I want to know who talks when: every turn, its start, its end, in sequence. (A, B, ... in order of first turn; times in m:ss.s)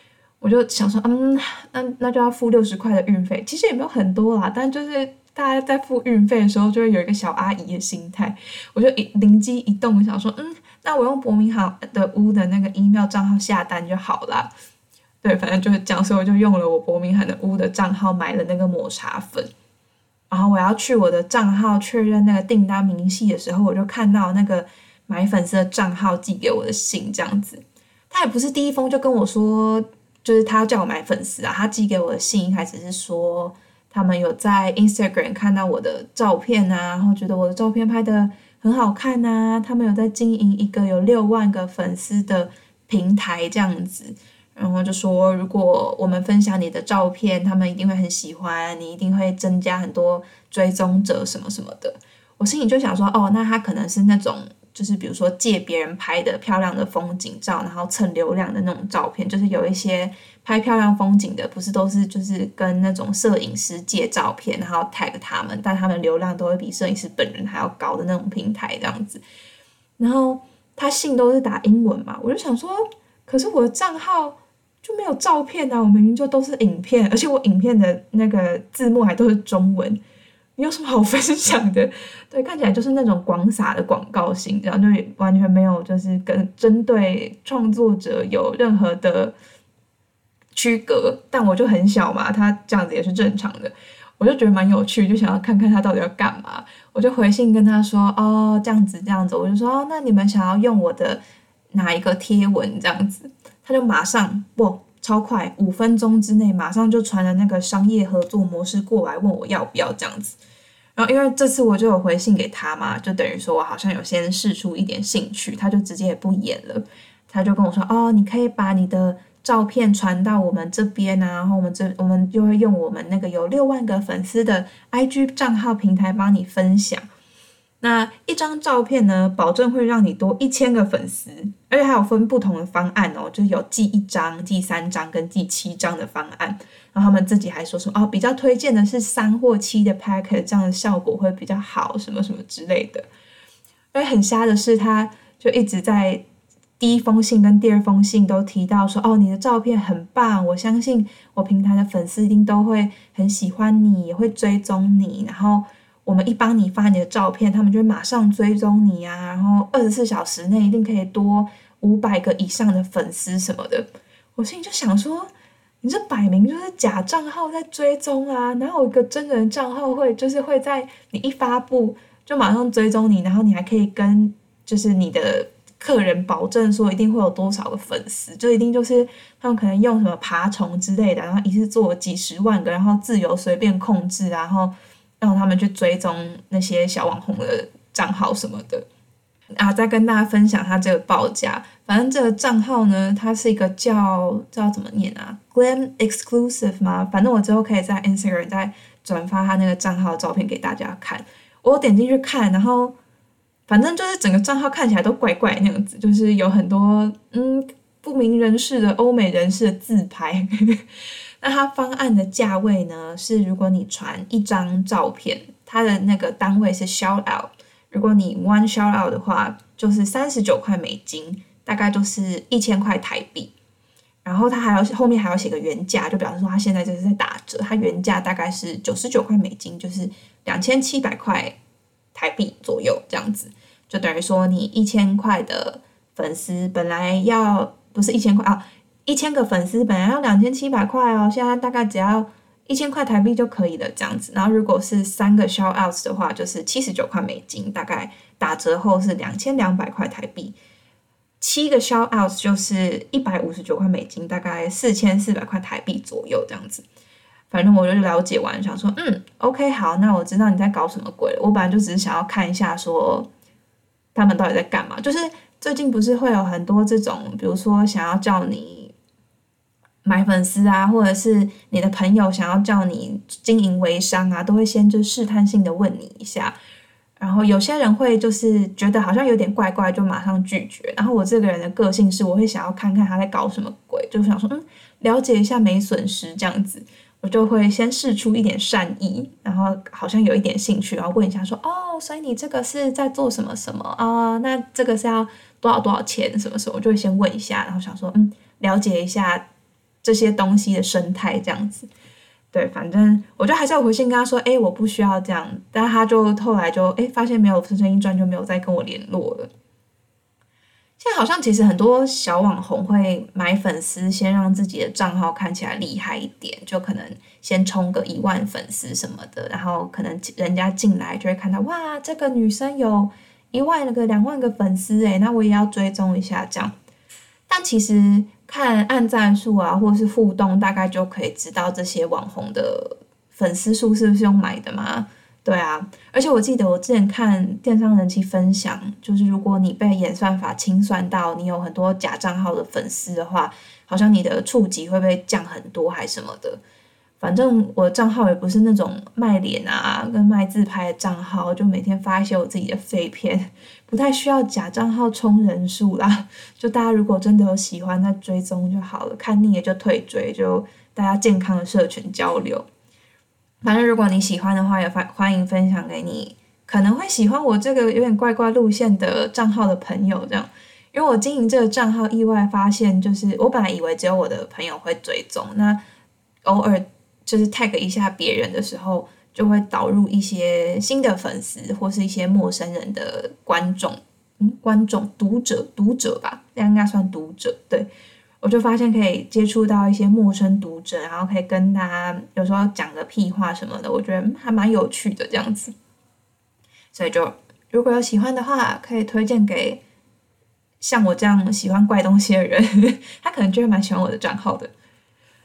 0:00.4-0:14.5 A
0:15.2-0:19.5 A
0:20.3-1:09.2 A
1:10.0-1:20.0 A
1:20.6-1:29.3 A
1:30.5-1:50.4 A
1:51.0-2:07.0 A
2:07.8-2:23.0 A
2:23.9-2:26.2 A
2:26.8-2:45.3 A
2:45.8-3:08.9 A
3:09.6-3:23.0 A
3:23.7-3:30.9 A
3:31.4-3:43.5 A
3:44.2-3:51.6 A
3:52.1-4:10.6 A
4:11.4-4:16.8 A
4:17.5-4:23.3 A
4:24.1-4:28.9 A
4:30.0-4:36.6 A
4:37.2-4:59.5 A
5:00.0-5:01.9 A
5:02.5-5:09.5 A
5:11.0-5:26.7 A
5:27.5-5:46.6 A
5:47.2-6:02.6 A
6:03.6-6:15.8 A
6:16.4-6:27.9 A
6:28.4-6:35.7 A
6:36.9-6:39.8 A
6:40.8-6:44.7 A